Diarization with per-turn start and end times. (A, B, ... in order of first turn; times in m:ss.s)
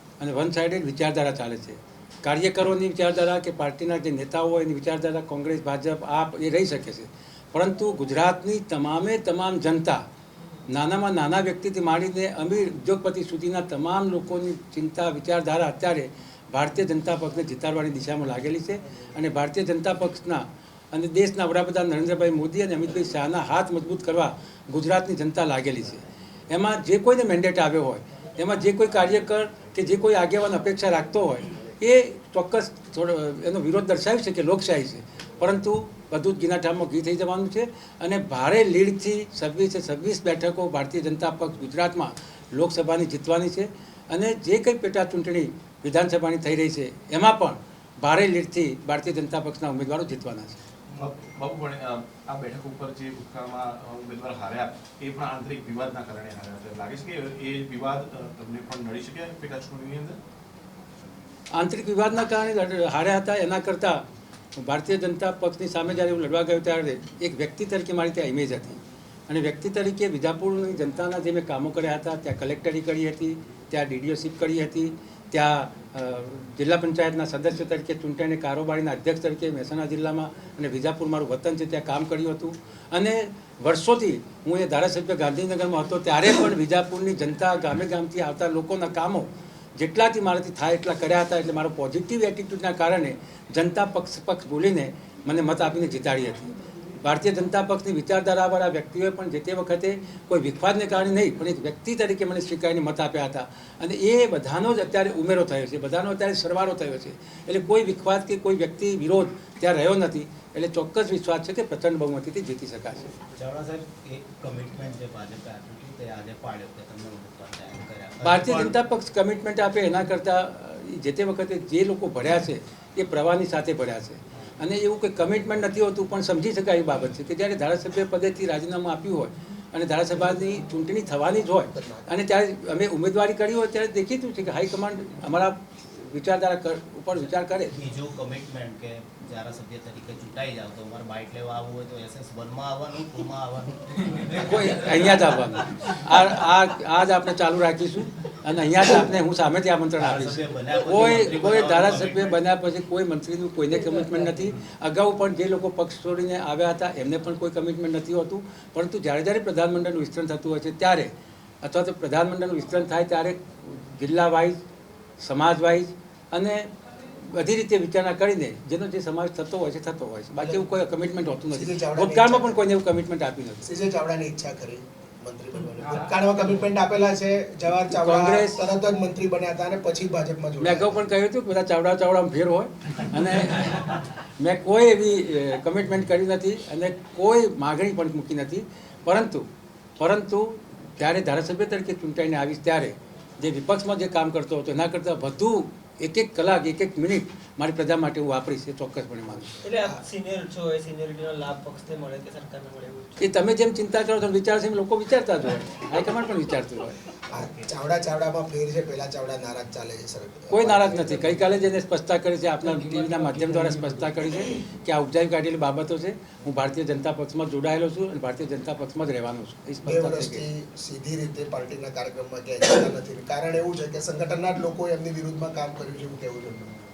0:00.2-0:10.0 A
0:10.7-0:50.6 A
0:51.0-1:00.2 B
1:01.5-1:04.0 A
1:04.6-1:53.1 A
1:53.4-1:58.8 C
1:58.2-2:17.8 A
2:11.7-2:12.1 D
2:17.7-2:25.4 C
2:24.3-2:41.1 A
2:30.0-2:32.4 C
2:41.6-2:44.6 A
2:45.2-2:53.7 A
2:50.4-2:50.7 D
2:51.5-2:52.6 D
2:53.6-3:01.0 D
2:57.9-2:58.7 A
3:00.6-3:09.5 A
3:10.0-3:19.6 A
3:19.6-3:23.2 E
3:19.7-3:20.0 D
3:23.2-3:27.0 A
3:27.3-3:31.4 D
3:30.5-3:40.5 A
3:39.8-3:46.7 D